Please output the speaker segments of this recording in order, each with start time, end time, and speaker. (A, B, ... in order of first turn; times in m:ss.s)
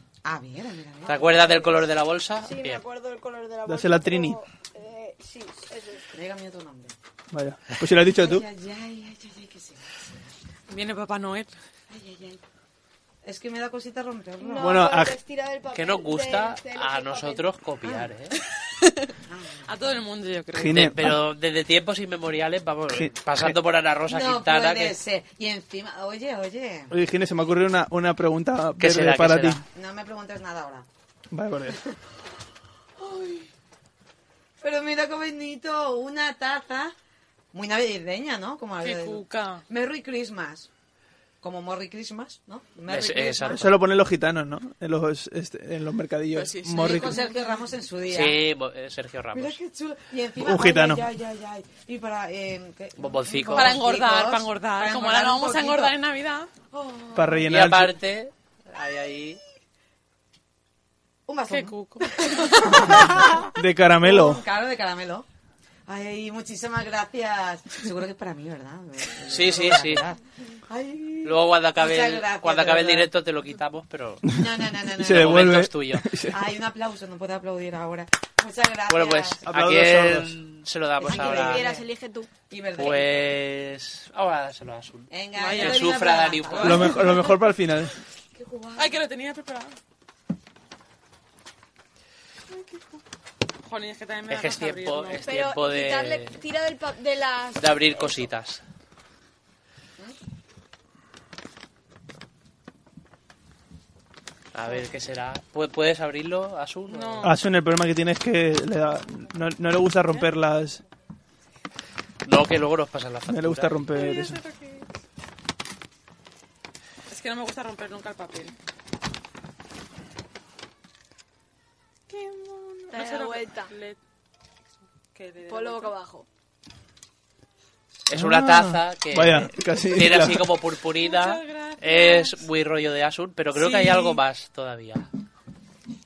0:00.2-0:01.9 A
0:01.1-0:02.8 B
0:02.4-0:06.0 C
0:03.7-0:04.4 D
0:06.1-0:06.9 A
0:07.3-0:08.4 D
0:08.0-0:10.3 A
0:10.7-0:11.5 E
0:11.9-0:12.4 A
0:13.2-0:14.9 A
0:14.4-0:17.4 C
0:14.6-0:15.2 D
0:15.7-0:18.4 B
0:18.8-0:19.1 E
0:19.3-0:19.7 A
0:19.7-0:20.9 E
0:20.5-0:21.2 D
0:20.7-0:25.0 B
0:22.9-0:23.6 D
0:24.1-0:26.9 A
0:26.9-0:29.6 D
0:28.8-0:29.6 B
0:29.7-0:30.9 A
0:31.3-0:31.8 D
0:33.0-0:33.5 A
0:34.6-0:36.9 A
0:37.5-0:40.7 A
0:38.8-0:39.6 E
0:41.4-0:43.7 A
0:42.9-0:43.7 B
0:43.4-0:47.2 D
0:46.3-0:47.5 E
0:46.7-0:48.4 A
0:48.1-0:49.6 B
0:49.3-0:55.9 A
0:50.4-0:51.1 D
0:53.0-0:53.8 B
0:53.5-0:56.5 E
0:56.7-0:57.5 A
0:57.1-0:58.0 D
0:57.5-0:59.4 B
1:01.3-1:05.2 A
1:01.5-1:03.0 E
1:02.8-1:04.4 D
1:05.9-1:13.1 A
1:09.3-1:10.0 B
1:11.2-1:14.3 B
1:14.3-1:16.4 D
1:14.3-1:15.6 A
1:15.0-1:16.0 B
1:16.3-1:19.4 A
1:18.9-1:21.7 B
1:19.4-1:20.4 D
1:21.0-1:21.9 A
1:21.1-1:22.3 C
1:22.5-1:23.3 A
1:22.8-1:27.0 B
1:25.1-1:27.3 A
1:25.3-1:27.1 E
1:26.6-1:27.9 D
1:28.3-1:29.0 A
1:28.8-1:29.8 E
1:33.6-1:35.2 E
1:34.3-1:36.4 B
1:35.2-1:38.2 C
1:37.6-1:38.6 B
1:44.5-1:47.3 B
1:46.9-1:47.3 E
1:47.2-1:50.8 D
1:52.2-1:53.7 B
1:53.3-1:54.4 D
1:53.9-1:54.9 E
1:57.1-1:58.5 E
2:02.1-2:04.0 E
2:02.9-2:03.7 C
2:05.1-2:05.9 E
2:05.5-2:06.2 C
2:08.1-2:15.1 B
2:08.1-2:10.5 D
2:10.9-2:12.4 E
2:13.6-2:14.2 E